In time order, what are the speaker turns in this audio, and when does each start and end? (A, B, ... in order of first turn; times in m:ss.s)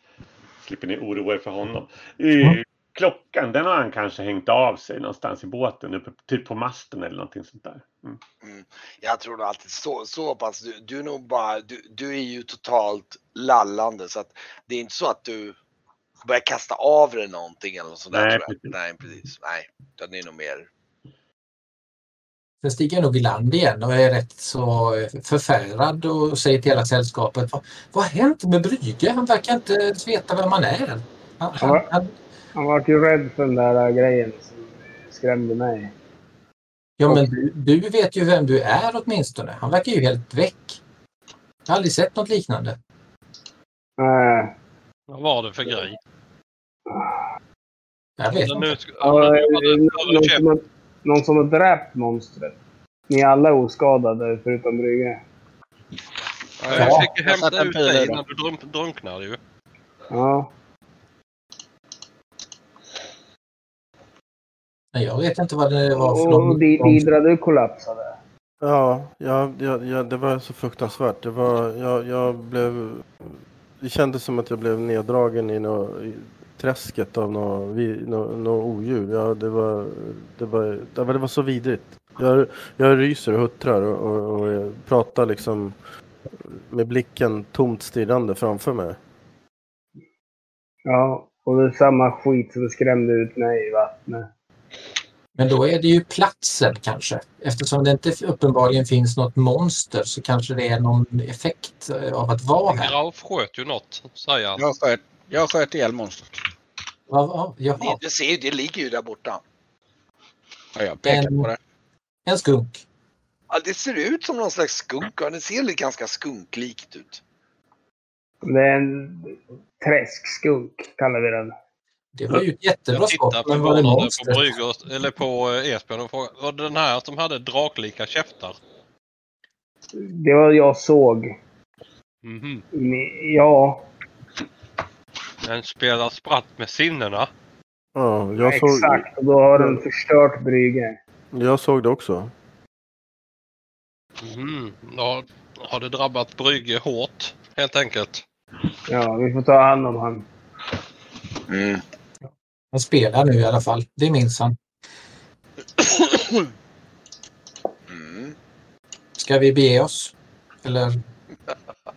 0:00.6-0:08.2 A
0:08.4-0:15.6 B
0:16.2-0:20.7 B
0:18.1-0:18.7 A
0:22.6-0:32.1 C
0:31.6-0:31.9 D
0:32.5-0:35.9 D
0:37.0-0:40.8 C
0:41.7-0:42.8 C
0:44.0-0:44.5 D
0:45.1-0:46.0 E
0:46.9-0:47.1 D
0:48.2-0:48.8 C
0:48.4-0:50.4 E
0:49.0-0:52.6 D
0:53.1-0:55.2 D
0:56.6-0:58.2 F
0:56.6-0:59.4 E
0:56.7-0:57.1 C
1:00.1-1:00.5 D
1:04.9-1:07.0 C
1:05.9-1:08.2 D
1:08.6-1:25.8 G
1:26.4-1:29.0 G
1:30.9-1:34.3 D
1:35.4-1:42.9 C
1:42.7-1:44.6 E
1:44.6-1:46.4 F
1:47.1-1:48.0 C
1:47.8-1:49.4 B
1:50.8-1:51.6 F
1:51.0-1:51.5 C
1:52.2-1:52.8 C
1:53.5-1:57.2 B
1:58.4-2:01.5 D
2:02.1-2:04.5 C
2:02.9-2:08.6 E
2:10.0-2:11.2 D
2:12.2-2:12.6 E
2:12.7-2:13.9 D
2:15.4-2:17.3 E
2:17.9-2:19.8 G
2:18.4-2:21.0 D
2:21.3-2:22.3 G
2:24.2-2:28.2 E
2:28.9-2:30.2 D
2:31.5-2:31.8 B
2:32.7-2:34.6 C
2:37.9-2:38.4 B
2:39.2-2:40.9 C